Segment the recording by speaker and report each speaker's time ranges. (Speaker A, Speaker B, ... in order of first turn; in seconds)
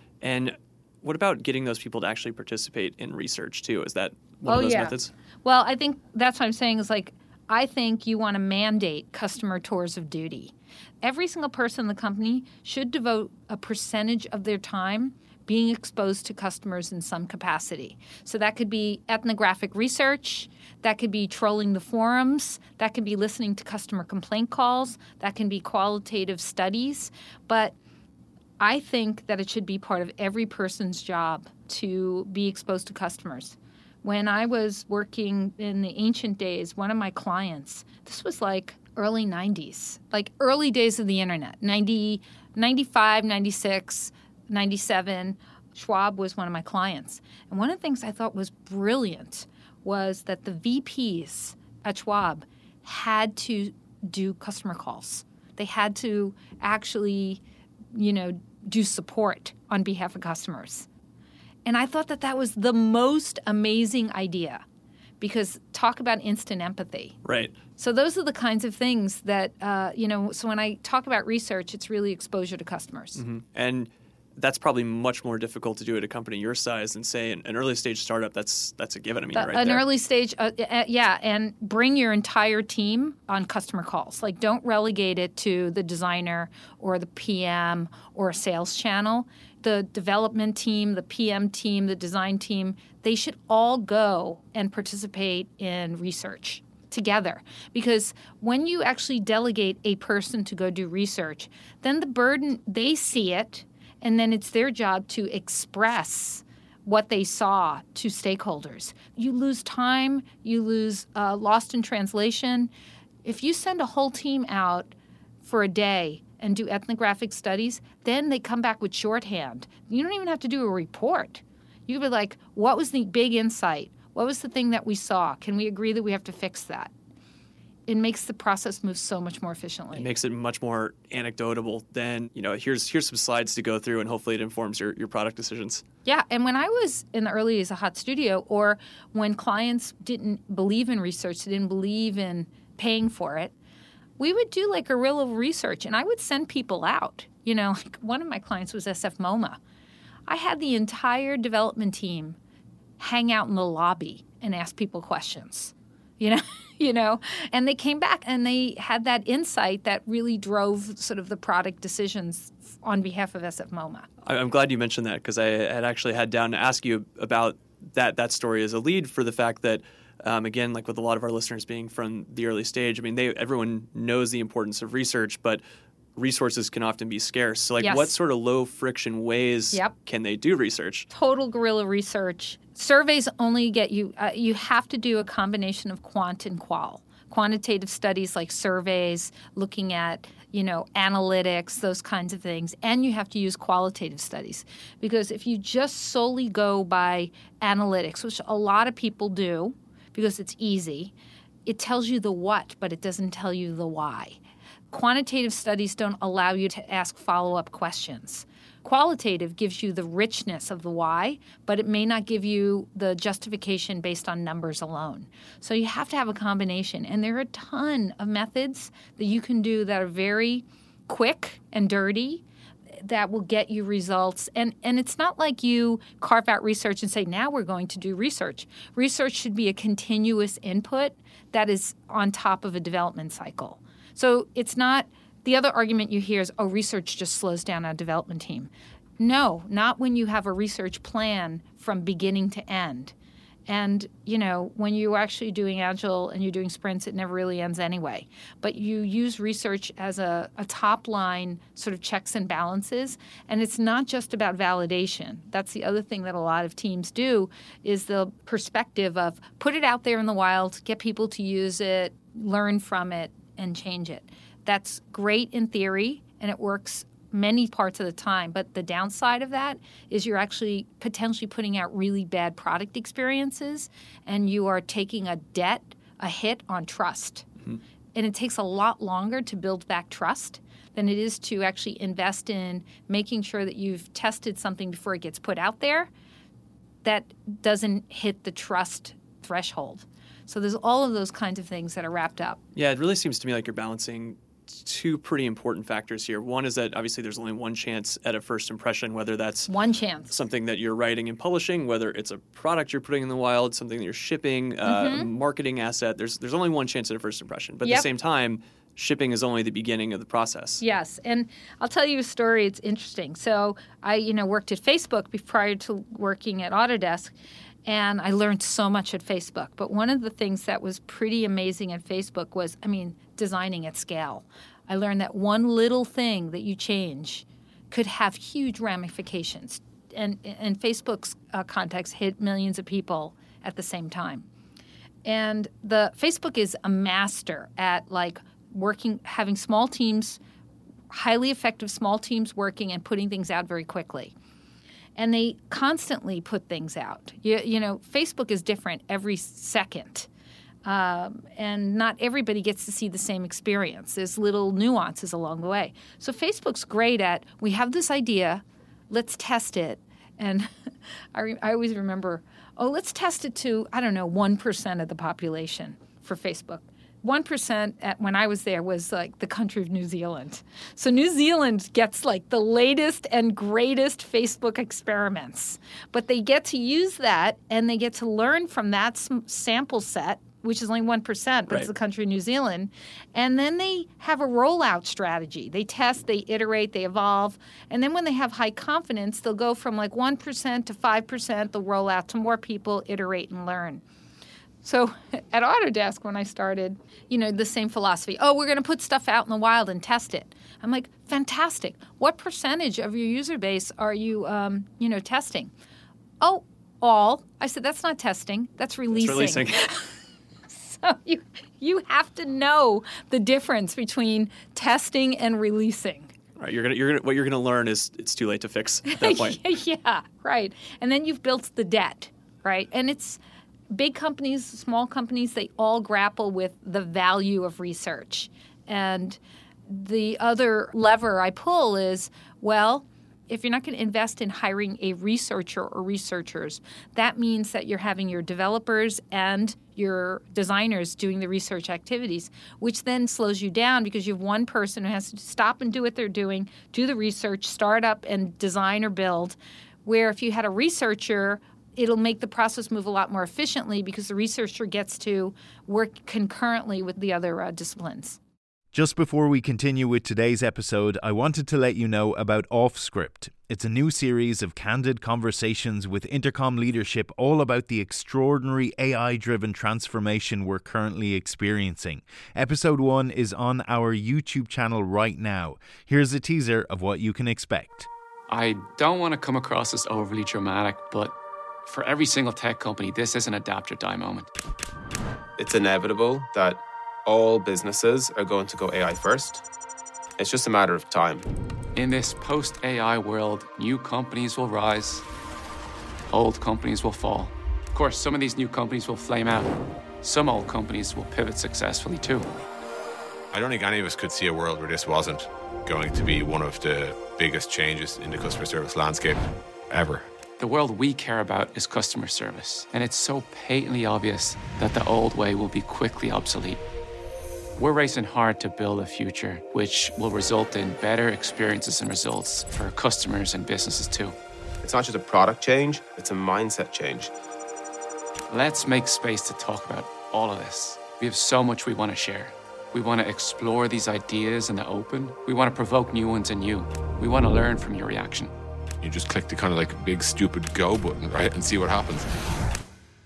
Speaker A: 0.2-5.1, 67.2-67.6, 73.2-79.8, 129.9-135.8, 164.2-175.6, 176.2-181.1, 292.8-299.7, 300.3-310.8, 409.1-409.9, 416.6-419.6
Speaker B: 4.5-27.7, 28.6-57.4, 57.9-60.9, 61.6-64.6, 65.2-67.2, 67.8-73.2, 79.3-112.7, 113.2-126.9, 127.9-130.1, 136.1-143.5, 144.2-149.6, 150.3-152.4, 153.0-164.1, 177.8-178.1, 181.1-201.1, 201.7-204.4, 204.9-222.4, 223.0-243.1, 243.7-277.5, 278.1-286.1, 287.0-292.6, 299.7-300.3, 304.9-305.3, 310.8-317.4, 317.9-334.5, 335.2-340.4, 341.1-344.3, 345.2-350.3, 350.8-360.7, 361.3-394.0, 394.8-405.7, 406.4-410.1, 410.7-416.3, 419.1-423.4, 423.9-458.4
Speaker C: 458.9-478.1
Speaker D: 478.5-484.5, 492.0-495.2, 496.3-502.5, 510.6-516.8, 517.8-524.4, 528.5-538.5
Speaker E: 485.6-489.6, 490.4-491.4, 524.8-527.3
Speaker F: 503.5-510.3, 539.0-542.3